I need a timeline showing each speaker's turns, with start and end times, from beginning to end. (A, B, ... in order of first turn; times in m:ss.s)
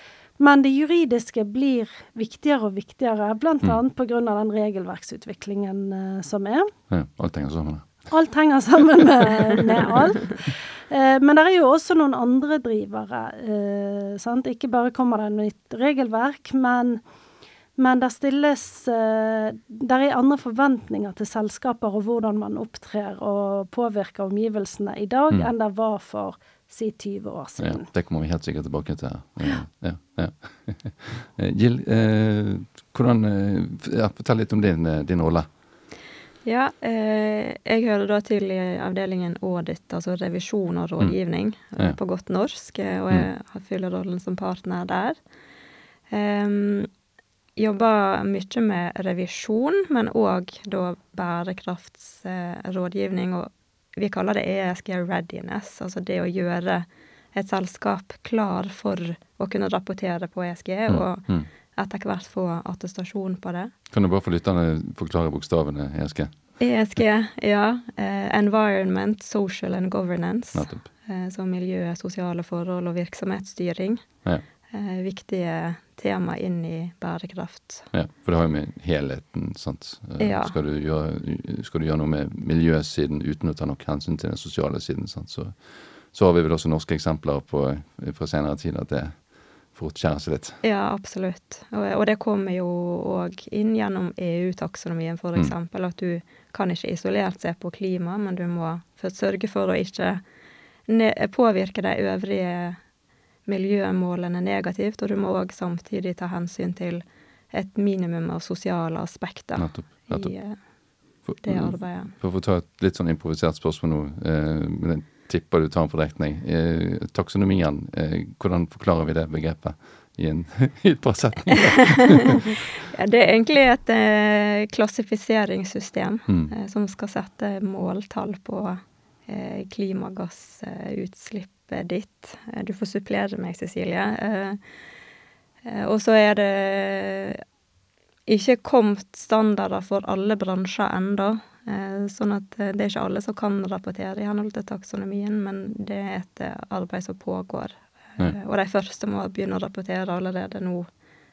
0:00.4-0:06.7 A
0:06.9-0:07.9 B
0:08.1-0:17.0 A
0:17.8-0:27.9 A
0:27.6-0:35.5 B
0:36.4-0:45.2 C
0:46.1-0:46.9 C
0:47.6-1:03.7 C
1:00.9-1:01.5 B
1:03.9-1:06.3 B
1:06.6-1:14.2 C
1:10.5-1:10.8 B
1:14.7-1:17.9 C
1:17.9-1:30.6 B
1:20.2-1:20.6 C
1:30.6-1:40.2 C
1:40.9-1:42.8 C
1:43.5-1:50.6 C
1:49.6-1:50.4 B
1:51.2-2:02.4 B
1:51.4-1:52.1 C
2:02.9-2:14.6 C
2:15.6-2:17.4 C
2:18.3-2:30.9 C